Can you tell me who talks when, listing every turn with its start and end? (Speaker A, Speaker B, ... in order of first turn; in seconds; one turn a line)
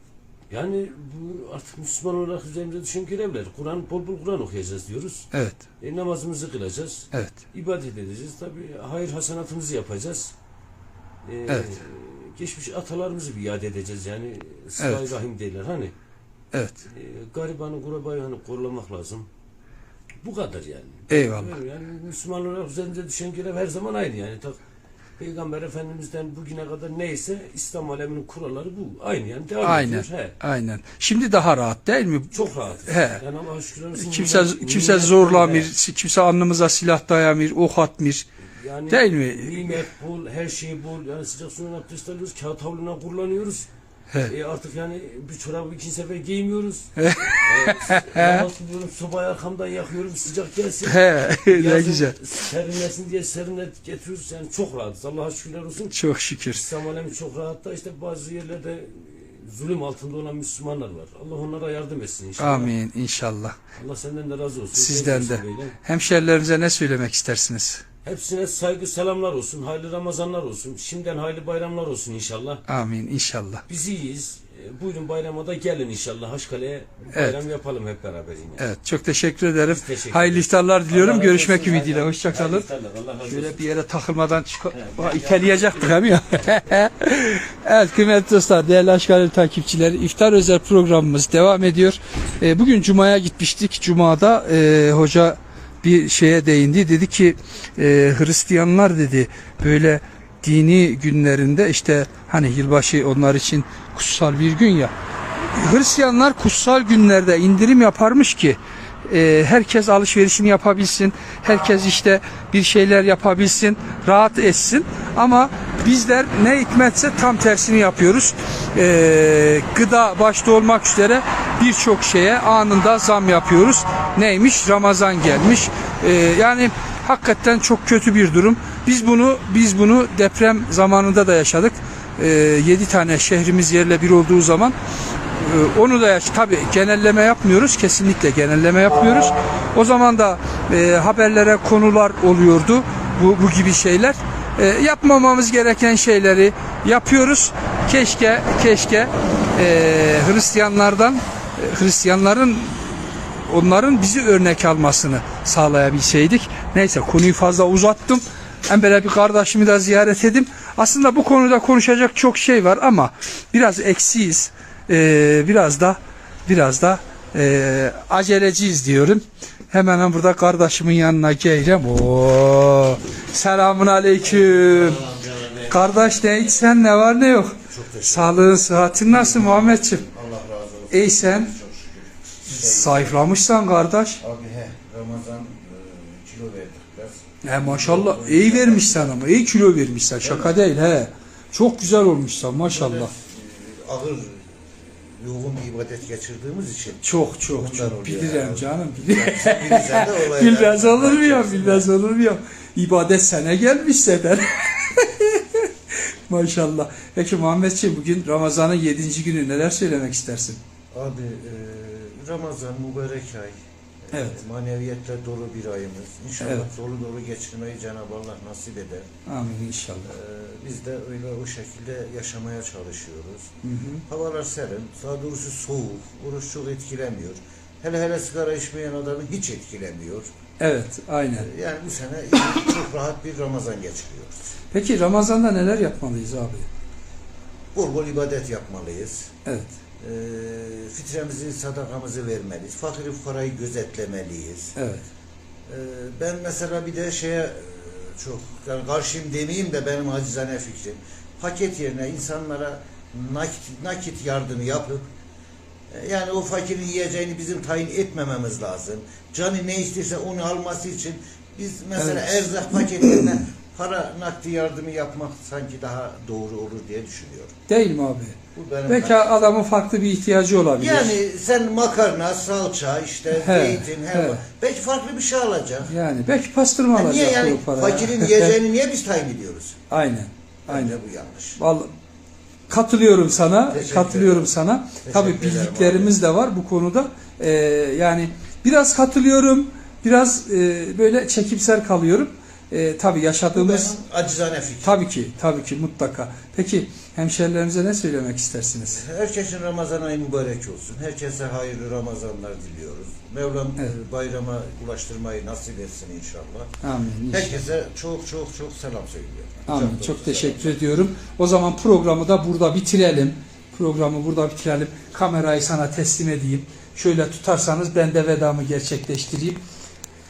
Speaker A: 0.5-5.3
Speaker B: 5.3-5.6
Speaker A: 5.8-10.3
Speaker B: 7.1-7.4
Speaker A: 11.2-15.9
Speaker B: 11.5-11.7
Speaker B: 14.8-15.1
Speaker B: 16.5-16.8
Speaker A: 16.8-19.3
Speaker A: 20.2-24.6
Speaker B: 21.1-21.6
Speaker A: 25.2-30.4
Speaker B: 29.6-33.2
Speaker A: 32.3-35.7
Speaker B: 34.0-38.2
Speaker A: 38.6-43.7
Speaker B: 38.9-39.8
Speaker A: 44.2-56.0
Speaker B: 47.0-48.5
Speaker B: 50.8-52.2
Speaker B: 55.9-56.6
Speaker A: 56.5-62.7
Speaker B: 62.4-63.6
Speaker A: 63.8-65.8
Speaker B: 64.7-67.8
Speaker A: 68.0-72.6
Speaker B: 72.7-73.6
Speaker A: 73.7-78.7
Speaker B: 77.1-77.4
Speaker B: 78.6-82.7
Speaker A: 79.7-83.7
Speaker B: 83.2-104.9
Speaker A: 84.7-86.2
Speaker B: 105.5-134.7
Speaker B: 135.4-175.0
Speaker C: 174.2-176.2
Speaker B: 175.7-180.0
Speaker C: 177.7-183.3
Speaker B: 180.9-181.5
Speaker B: 182.5-184.2
Speaker C: 184.2-189.2
Speaker B: 187.4-193.1
Speaker C: 190.2-190.6
Speaker C: 192.7-201.9
Speaker B: 197.0-205.7
Speaker B: 206.3-210.6
Speaker C: 210.9-219.1
Speaker B: 214.1-214.4
Speaker B: 216.4-216.7
Speaker B: 219.3-220.1
Speaker C: 220.1-223.5
Speaker B: 223.6-224.0
Speaker C: 224.1-230.3
Speaker B: 230.6-231.5
Speaker C: 231.4-234.5
Speaker B: 234.7-236.7
Speaker C: 237.7-239.3
Speaker B: 239.5-239.7
Speaker C: 240.0-244.8
Speaker B: 244.8-245.0
Speaker C: 245.7-255.1
Speaker C: 255.9-267.5
Speaker B: 262.0-262.4
Speaker B: 267.7-271.2
Speaker C: 268.5-269.5
Speaker C: 270.8-275.9
Speaker B: 273.3-274.4
Speaker B: 275.9-278.6
Speaker C: 276.9-279.8
Speaker B: 279.9-281.0
Speaker C: 280.6-281.6
Speaker B: 281.6-281.9
Speaker B: 282.7-293.9
Speaker C: 283.7-286.1
Speaker C: 293.5-295.0
Speaker B: 294.8-299.0
Speaker C: 298.9-306.7
Speaker B: 306.8-307.6
Speaker C: 307.3-310.8
Speaker B: 309.7-319.6